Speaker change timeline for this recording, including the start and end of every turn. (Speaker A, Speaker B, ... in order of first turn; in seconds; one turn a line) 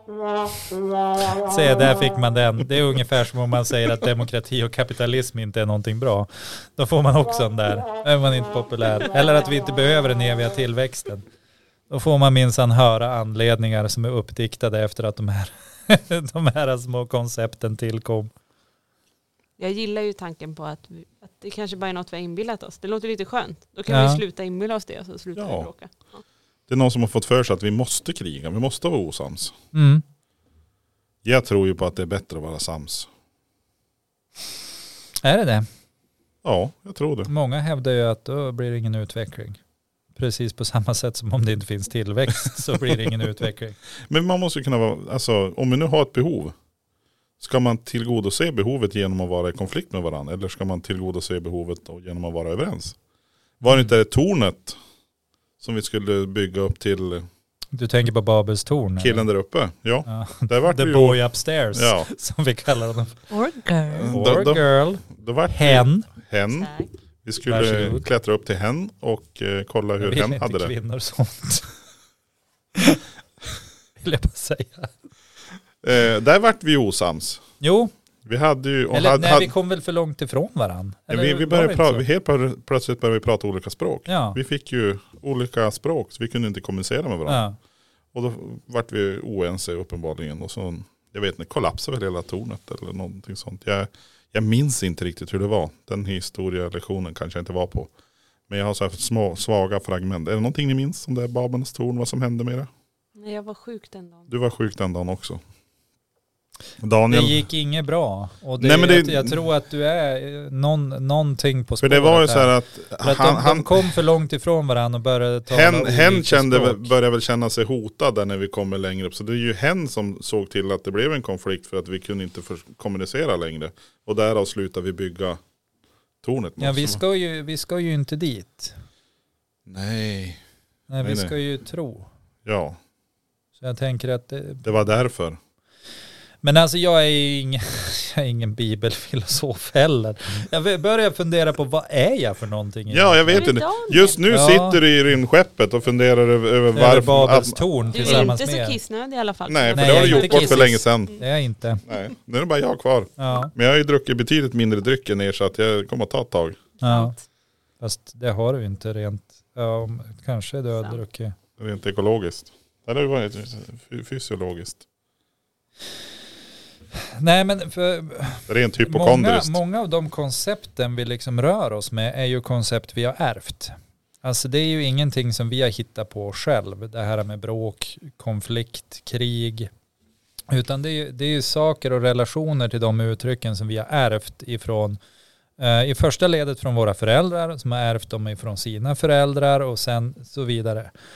Speaker A: 1.4-11.2
Speaker A: 11.9-18.3
Speaker B: 19.6-26.2
Speaker A: 23.9-24.2
Speaker C: 25.4-25.7
Speaker C: 26.7-29.6
Speaker A: 29.7-30.0
Speaker C: 31.2-33.1
Speaker A: 35.2-35.7
Speaker C: 36.4-37.3
Speaker A: 37.3-39.6
Speaker A: 40.1-43.8
Speaker C: 44.1-46.5
Speaker C: 47.4-53.0
Speaker C: 53.6-54.7
Speaker A: 53.7-53.9
Speaker C: 55.6-57.3
Speaker A: 57.7-59.3
Speaker C: 59.0-61.2
Speaker A: 60.0-63.2
Speaker C: 61.7-62.1
Speaker B: 63.3-64.1
Speaker C: 63.9-66.7
Speaker A: 64.1-66.1
Speaker B: 66.5-66.9
Speaker C: 67.2-70.7
Speaker A: 67.5-68.1
Speaker A: 70.0-71.7
Speaker A: 72.8-73.0
Speaker A: 74.0-74.9
Speaker C: 75.8-77.4
Speaker A: 77.6-77.9
Speaker C: 78.2-79.5
Speaker A: 78.9-82.0
Speaker C: 81.1-87.4
Speaker A: 84.1-84.4
Speaker A: 87.3-87.6
Speaker C: 88.1-97.9
Speaker C: 98.5-102.7
Speaker B: 103.2-104.3
Speaker C: 104.3-105.4
Speaker C: 106.8-107.4
Speaker A: 107.1-116.9
Speaker C: 108.6-109.4
Speaker C: 111.8-113.9
Speaker C: 115.5-125.4
Speaker C: 126.2-127.0
Speaker A: 126.6-128.7
Speaker C: 129.7-130.4
Speaker A: 130.9-132.1
Speaker C: 131.0-131.3
Speaker C: 132.4-132.8
Speaker A: 133.6-134.6
Speaker C: 134.6-135.4
Speaker A: 136.4-143.5
Speaker C: 142.9-148.3
Speaker B: 143.3-144.2
Speaker A: 144.3-144.8
Speaker A: 146.7-148.8
Speaker B: 147.9-151.2
Speaker C: 149.5-151.2
Speaker A: 149.7-151.8
Speaker C: 151.8-156.6
Speaker A: 153.2-153.5
Speaker A: 156.8-157.1
Speaker B: 156.8-157.2
Speaker A: 157.8-161.3
Speaker C: 161.6-164.8
Speaker A: 166.9-179.7
Speaker C: 168.5-169.6
Speaker A: 180.5-185.0
Speaker A: 185.6-190.9